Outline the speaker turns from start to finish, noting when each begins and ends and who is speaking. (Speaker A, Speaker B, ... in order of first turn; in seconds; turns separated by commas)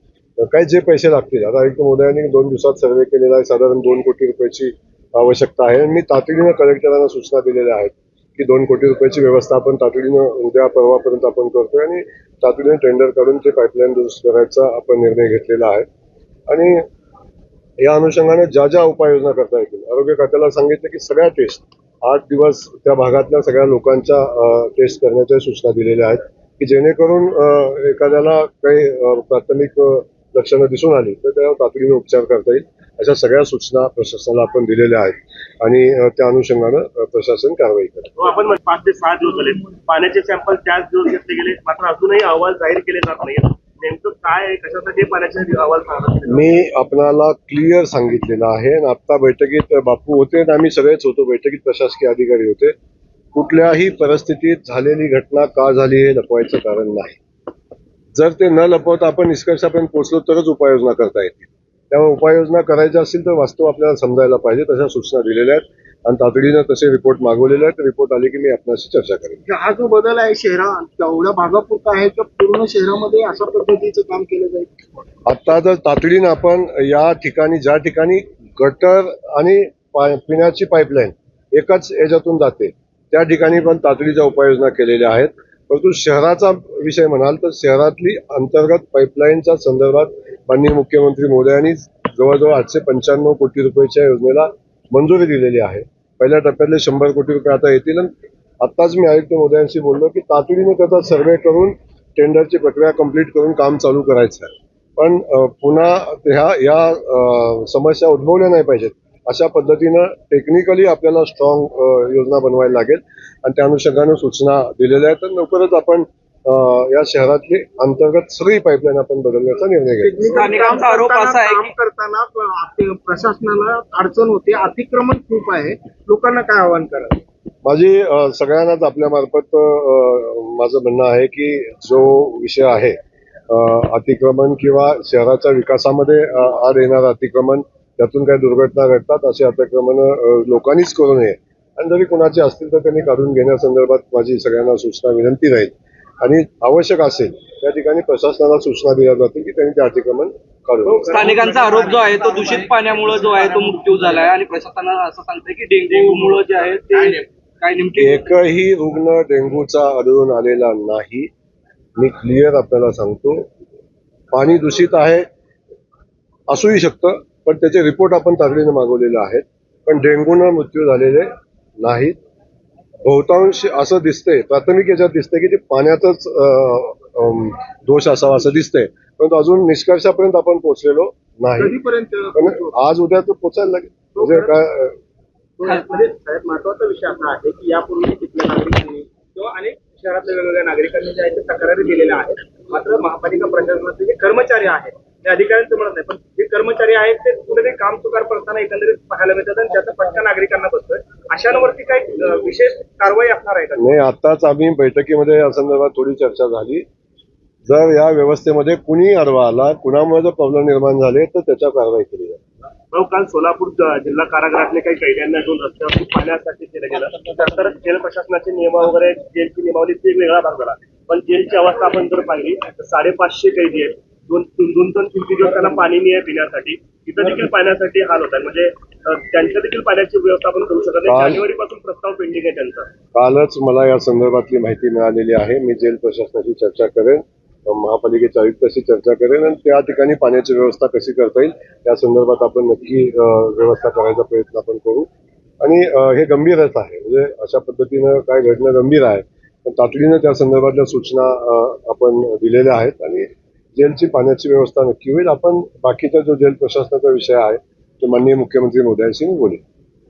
Speaker A: 0.4-15.9, Speaker A: 16.5-16.9, Speaker A: 17.8-38.1, Speaker B: 38.2-46.5, Speaker A: 46.3-52.7, Speaker A: 53.3-57.2, Speaker A: 58.1-69.4, Speaker C: 69.5-74.7, Speaker A: 75.3-120.6, Speaker C: 120.0-127.2, Speaker D: 120.3-121.7, Speaker A: 127.7-133.0, Speaker A: 133.5-151.4, Speaker D: 151.1-158.3, Speaker E: 151.1-153.3, Speaker A: 158.0-161.3, Speaker A: 162.0-163.5, Speaker A: 164.3-165.3, Speaker A: 166.5-172.2, Speaker A: 173.1-181.8, Speaker C: 181.6-182.8, Speaker A: 182.3-185.0, Speaker C: 184.2-184.5, Speaker C: 185.6-186.7, Speaker E: 185.9-203.8, Speaker C: 187.3-188.3, Speaker C: 188.8-189.1, Speaker B: 202.3-203.3, Speaker A: 203.8-206.9, Speaker A: 207.7-212.4, Speaker B: 212.9-232.9, Speaker A: 231.1-231.4, Speaker A: 233.1-245.1, Speaker A: 245.6-259.6